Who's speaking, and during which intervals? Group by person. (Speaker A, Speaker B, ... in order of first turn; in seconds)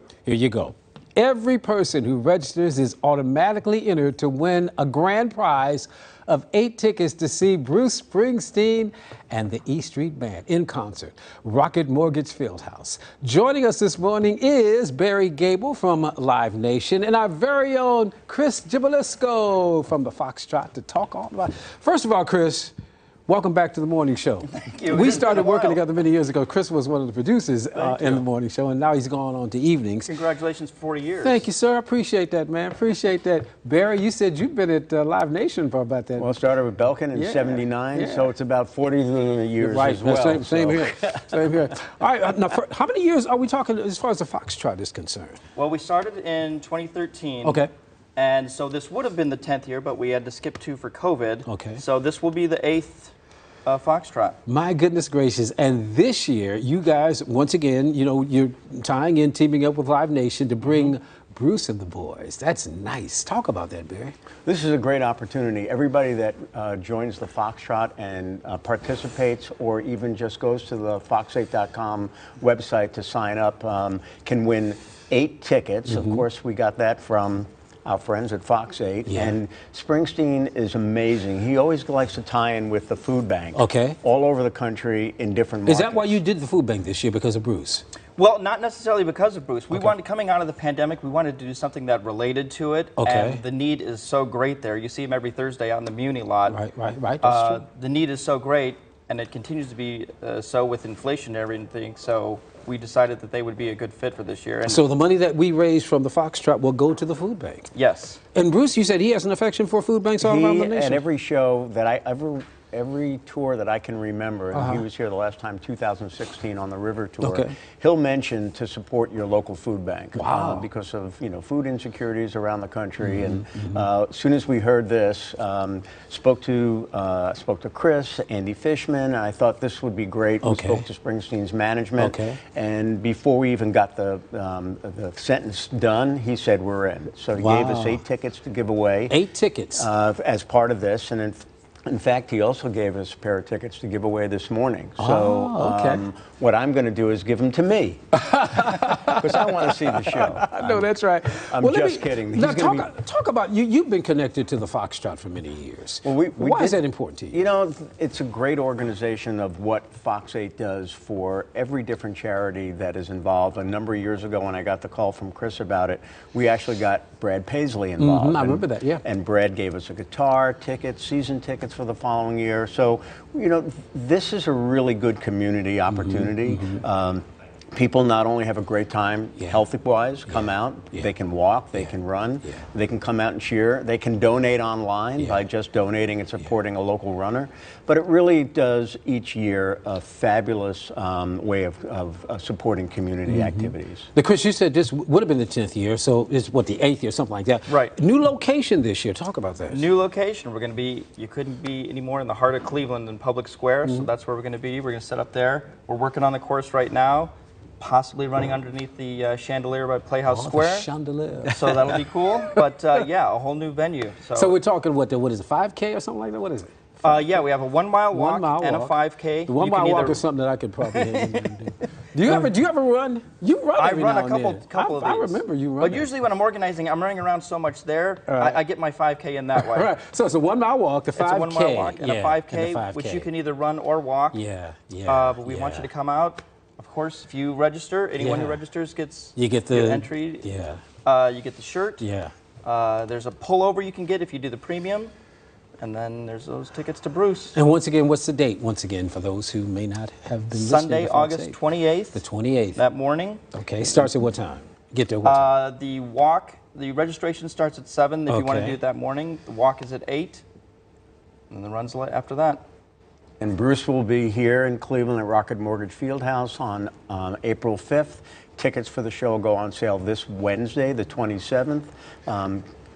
Speaker A: 0.2-22.7, 23.3-30.1, 31.2-36.3, 37.1-38.3, 39.6-45.4, 47.4-47.7, 51.5-51.8, 54.5-64.1, 75.9-76.2, 79.1-79.4, 83.5-84.0, 85.7-87.8, 93.0-93.4, 96.5-97.6, 104.6-107.7, 108.3-111.0, 114.5-114.8, 117.2-117.5, 120.1-120.7, 123.0-123.8, 130.4-130.8, 132.0-132.4, 137.4-138.0, 139.1-139.9, 145.0-146.0, 148.1-157.4, 168.0-169.0, 175.9-176.8, 180.3-181.1, 181.7-182.6, 185.2-185.4, 193.3-199.9, 203.8-204.1, 210.2-211.9, 214.3-217.3, 218.1-218.9, 219.5-226.1, 228.3-228.6, 229.6-233.3, 234.3-235.9, 238.2-238.6, 239.3-240.8, 242.0-242.3, 247.5-251.6, 252.1-252.8, 253.5-255.5, 258.3-258.8
Speaker B: 24.5-25.8, 27.8-28.2, 30.1-31.4, 45.5-47.6, 48.1-53.1, 53.6-54.4, 88.2-96.6, 97.2-104.8, 107.7-108.2, 197.7-197.9, 199.7-210.9, 211.5-214.6, 217.0-220.2, 220.8-221.6, 223.8-229.9, 231.2-234.4, 235.1-240.4, 241.0-242.0, 242.6-245.1, 245.8-247.6, 250.5-252.2, 252.7-253.4, 255.2-260.4, 261.5-262.6
Speaker C: 36.2-41.6, 64.4-86.2, 110.2-139.2, 139.8-148.0, 148.6-152.9, 156.0-194.1, 263.4-272.6